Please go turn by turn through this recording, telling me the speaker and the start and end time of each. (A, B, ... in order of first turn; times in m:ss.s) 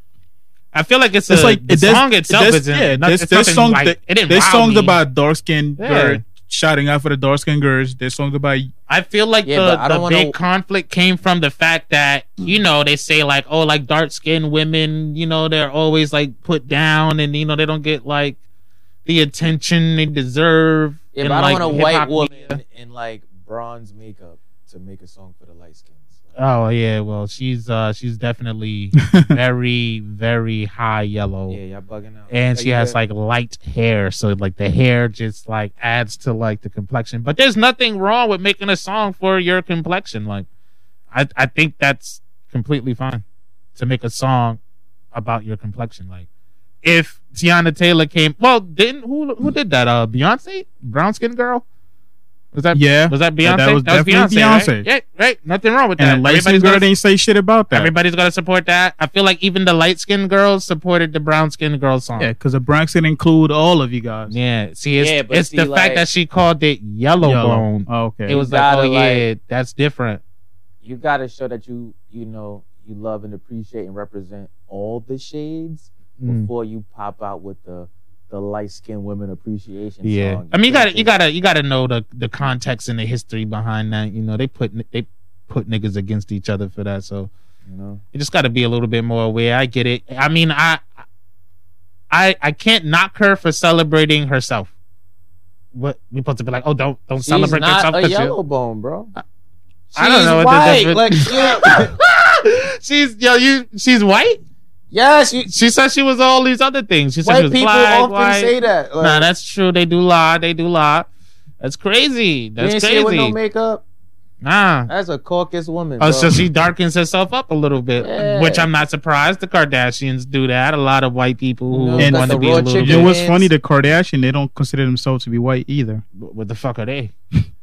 0:00.7-0:05.0 A
0:01.3-0:08.7 B
0:05.8-0:06.2 A
0:08.9-0:18.4 A
0:09.5-0:10.4 C
0:19.0-0:22.6 A
0:21.1-0:26.1 C
0:26.4-0:31.6 A
0:29.0-0:29.3 B
0:31.5-0:33.0 C
0:32.3-0:40.5 A
0:41.1-0:43.2 A
0:43.8-0:44.6 A
0:45.1-0:46.3 A
0:46.8-0:51.6 A
0:52.5-0:56.9 A
0:52.7-0:54.9 B
0:56.0-0:57.9 B
0:57.7-1:02.3 A
1:02.2-1:04.4 B
1:04.3-1:10.2 A
1:05.0-1:06.1 C
1:07.2-1:08.4 B
1:08.3-1:09.3 C
1:10.8-1:21.1 C
1:16.2-1:16.5 A
1:20.0-1:27.3 A
1:27.7-1:28.0 C
1:28.1-1:30.9 A
1:32.1-1:34.7 A
1:35.7-1:38.4 A
1:37.2-1:39.1 C
1:39.9-1:41.9 C
1:40.0-1:44.4 A
1:44.9-1:45.5 C
1:45.5-1:51.1 A
1:47.2-1:49.3 C
1:51.6-1:53.4 A
1:52.6-1:53.8 C
1:54.4-1:54.9 A
1:54.9-1:56.4 C
1:56.0-2:03.2 A
1:58.0-1:58.7 C
2:01.7-2:03.5 C
2:02.0-2:06.0 B
2:06.2-2:07.1 A